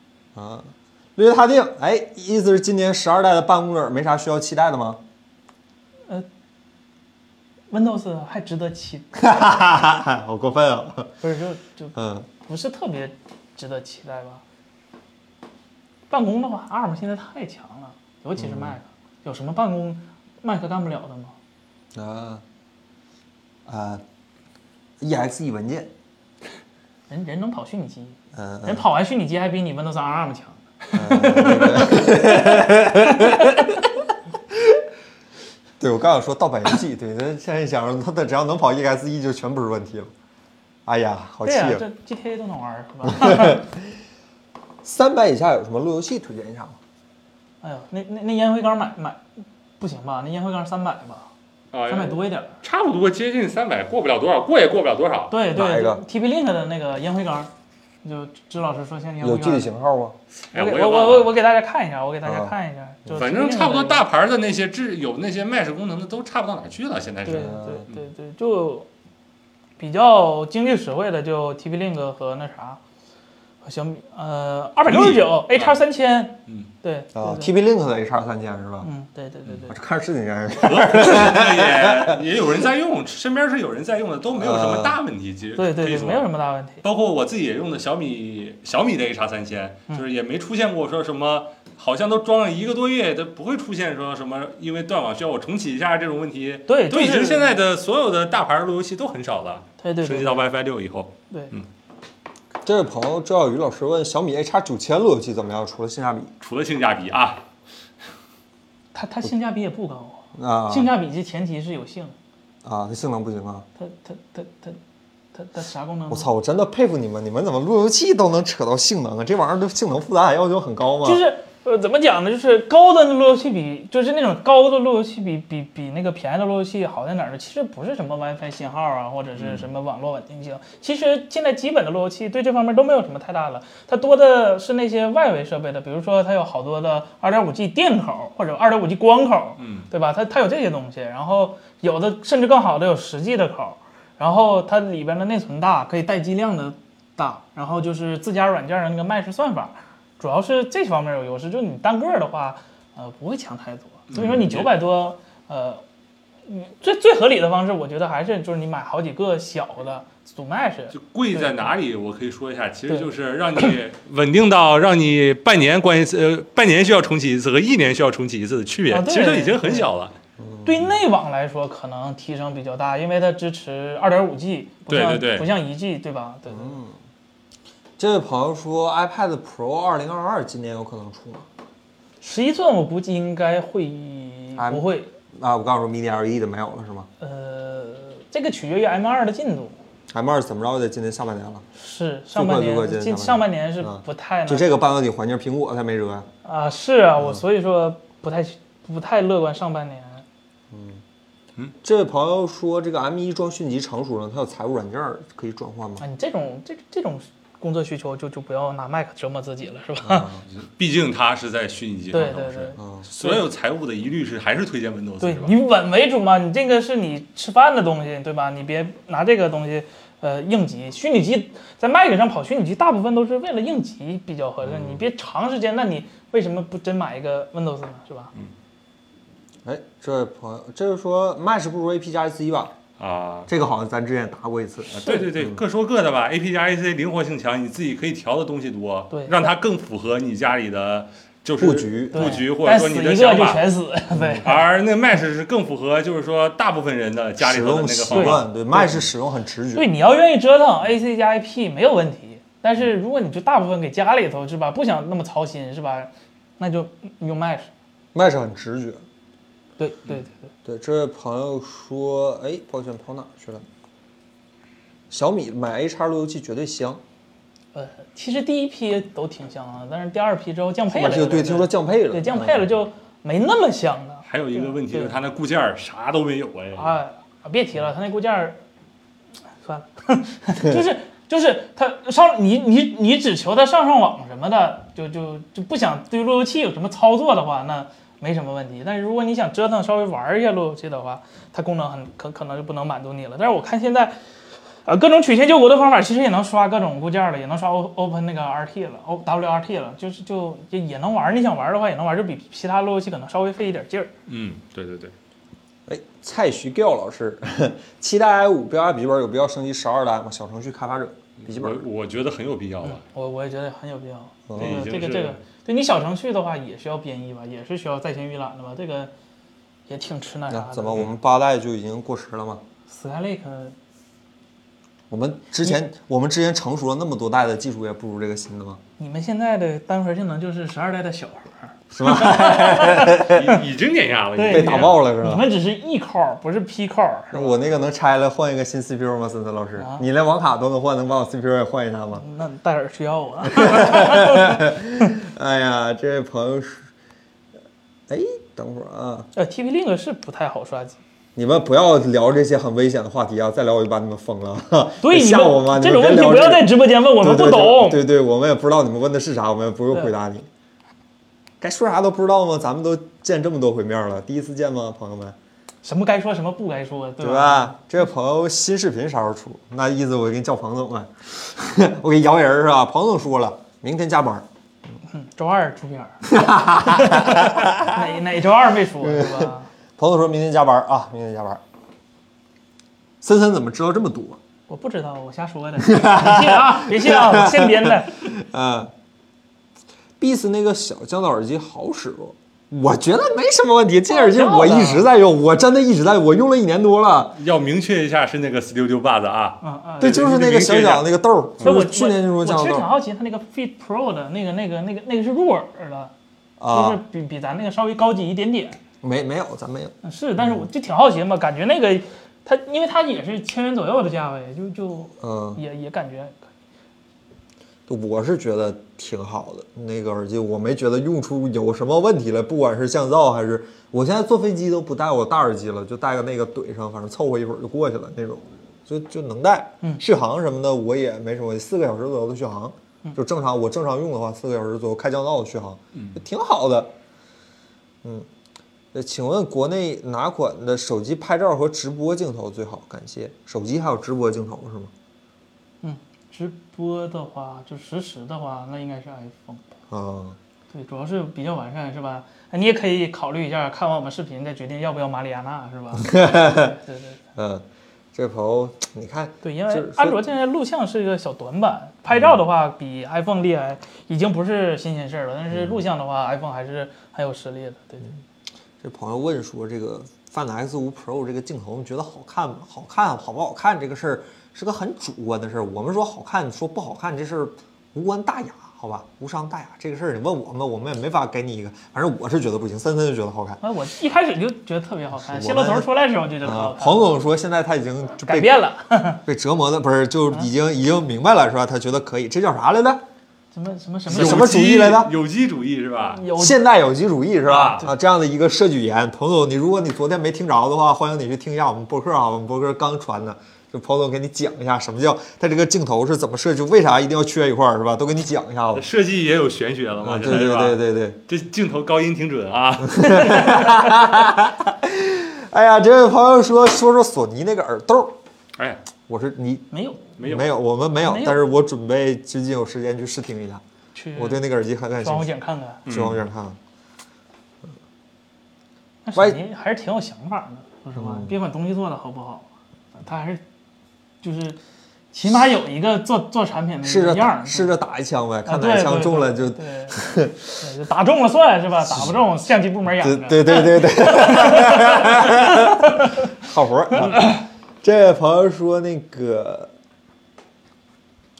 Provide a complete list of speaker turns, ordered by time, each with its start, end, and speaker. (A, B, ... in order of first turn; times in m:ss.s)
0:00.4-0:05.0 A
0:07.7-0:09.1 B
0:09.2-0:11.1 A
0:11.2-0:14.4 B
0:12.0-0:12.3 A
0:16.1-0:21.4 B
0:18.4-0:18.8 A
0:22.0-0:22.4 A
0:23.7-0:24.0 A
0:25.0-0:25.9 A
0:27.1-0:33.6 B
0:28.3-0:28.8 A
0:30.9-0:34.0 A
0:34.5-0:34.8 A
0:35.8-0:40.1 A
0:40.9-0:41.8 A
0:41.4-0:43.6 B
0:43.1-0:43.9 A
0:44.8-0:46.8 A
0:47.6-0:51.3 B
0:51.7-0:55.3 C
0:51.9-0:52.6 B
0:55.3-0:57.5 B
0:55.5-0:56.0 A
0:58.0-0:59.7 B
0:59.2-1:00.2 A
1:00.5-1:01.3 C
1:00.5-1:04.0 B
1:02.2-1:02.5 A
1:03.1-1:08.0 C
1:07.2-1:08.9 B
1:07.4-1:07.8 A
1:09.8-1:12.8 B
1:13.6-1:17.5 B
1:14.9-1:15.7 C
1:17.2-1:18.9 A
1:18.8-1:19.8 B
1:19.7-1:22.2 A
1:20.6-1:26.3 C
1:24.4-1:25.0 A
1:25.6-1:26.8 B
1:26.8-1:41.7 C
1:36.7-1:37.6 B
1:39.8-1:40.4 B
1:42.6-1:46.3 A
1:46.4-1:47.4 C
1:48.9-1:52.2 B
1:50.4-1:50.9 A
1:52.6-1:53.7 A
1:53.8-1:54.8 B
1:55.3-1:56.3 B
1:56.1-2:01.2 A
2:01.0-2:35.8 B
2:09.4-2:09.7 C
2:19.6-2:19.9 C
2:34.1-2:34.7 C
2:36.5-2:41.7 B
2:40.9-2:50.1 C
2:48.9-2:49.9 B
2:50.4-2:50.9 A
2:50.6-2:56.8 B
2:54.9-2:55.5 C
2:56.5-2:57.0 A
2:58.0-3:01.5 A
3:02.2-3:05.1 B
3:04.6-3:07.1 A
3:07.2-3:09.8 B
3:10.1-3:11.6 A
3:11.8-3:14.8 B
3:12.3-3:16.3 A
3:16.4-3:20.2 B
3:20.7-3:21.0 A
3:21.8-3:26.0 A
3:26.0-3:30.3 B
3:30.0-3:30.4 A
3:30.5-3:35.6 C
3:32.1-3:33.4 B
3:32.8-3:33.0 A
3:35.2-3:48.3 B
3:44.7-3:45.0 A
3:49.6-3:52.8 A
3:53.0-3:53.5 C
3:53.5-3:55.6 A
3:54.9-4:03.7 C
3:55.0-3:55.3 B
4:01.6-4:02.4 A
4:02.1-4:04.6 B
4:04.2-4:04.4 A
4:04.4-4:08.5 C
4:07.4-4:09.9 A
4:08.1-4:09.0 B
4:09.8-4:17.7 B
4:18.1-4:19.0 A
4:19.8-4:20.5 B
4:20.6-4:23.6 A
4:25.1-4:27.0 A
4:27.7-4:35.2 B
4:30.9-4:32.6 A
4:34.3-4:37.0 C
4:36.8-4:38.6 B
4:39.6-4:54.2 B
4:54.8-5:04.1 B
5:04.3-5:05.1 C
5:05.9-5:11.8 A
5:11.4-5:13.0 C
5:12.8-5:19.1 B
5:14.5-5:14.9 A
5:14.6-5:15.4 C
5:19.9-5:21.1 B
5:20.5-5:22.6 A
5:22.9-5:23.8 B
5:25.1-5:28.8 A
5:29.0-5:33.6 B
5:31.9-5:33.5 A
5:33.3-5:35.0 C
5:34.4-5:37.7 B
5:34.4-5:35.5 A
5:37.3-5:42.2 A
5:39.8-5:40.0 B
5:42.2-5:45.1 B
5:43.5-5:46.9 A
5:48.1-5:49.3 A
5:49.4-5:51.0 B
5:51.4-6:00.5 A
5:55.0-5:58.0 B
6:01.6-6:05.4 A
6:05.8-6:07.8 B
6:07.2-6:14.5 A
6:15.1-6:19.7 B
6:16.3-6:18.0 A
6:19.0-6:21.6 A
6:23.2-6:24.4 A
6:24.7-6:28.3 B
6:25.8-6:28.9 A
6:30.2-6:37.4 A
6:34.1-6:35.1 B
6:37.4-6:41.7 C
6:39.6-6:40.3 B
6:40.0-6:42.9 A
6:41.6-6:46.1 B
6:46.6-6:47.0 A
6:46.7-6:48.8 B
6:49.0-6:50.6 A
6:50.0-6:56.4 B
6:55.2-6:55.6 A
6:57.9-7:16.9 A
7:18.9-7:24.9 A
7:25.8-7:29.7 B
7:29.9-7:30.4 A
7:30.7-7:37.2 B
7:36.0-7:36.7 A
7:37.4-7:40.2 A
7:39.4-7:48.1 B
7:45.5-7:45.8 A
7:48.8-8:03.6 A
8:03.6-8:07.2 B
8:05.2-8:05.9 A
8:06.4-8:08.5 A
8:08.2-8:09.2 B
8:09.2-8:13.0 A
8:13.5-8:14.5 B
8:14.1-8:15.1 A
8:14.1-8:16.2 C
8:16.1-8:16.6 B
8:16.3-8:28.8 A
8:17.5-8:17.9 B
8:17.5-8:17.8 C
8:28.8-8:33.7 C
8:30.0-8:31.2 A
8:32.9-8:38.2 A
8:39.1-8:43.6 A
8:39.7-8:40.0 B
8:40.2-8:40.5 C
8:41.0-8:41.4 B
8:44.0-8:44.4 B
8:44.2-8:45.3 A
8:45.0-8:45.8 B
8:45.9-8:46.2 C
8:45.9-8:46.6 A
8:49.0-8:53.4 B
8:49.2-8:49.4 A
8:51.0-8:51.4 A
8:54.2-8:54.6 B
8:55.1-8:57.8 B
8:56.8-9:00.5 A
8:58.5-9:00.0 B
9:00.6-9:06.2 B
9:03.0-9:09.7 A
9:07.0-9:07.4 B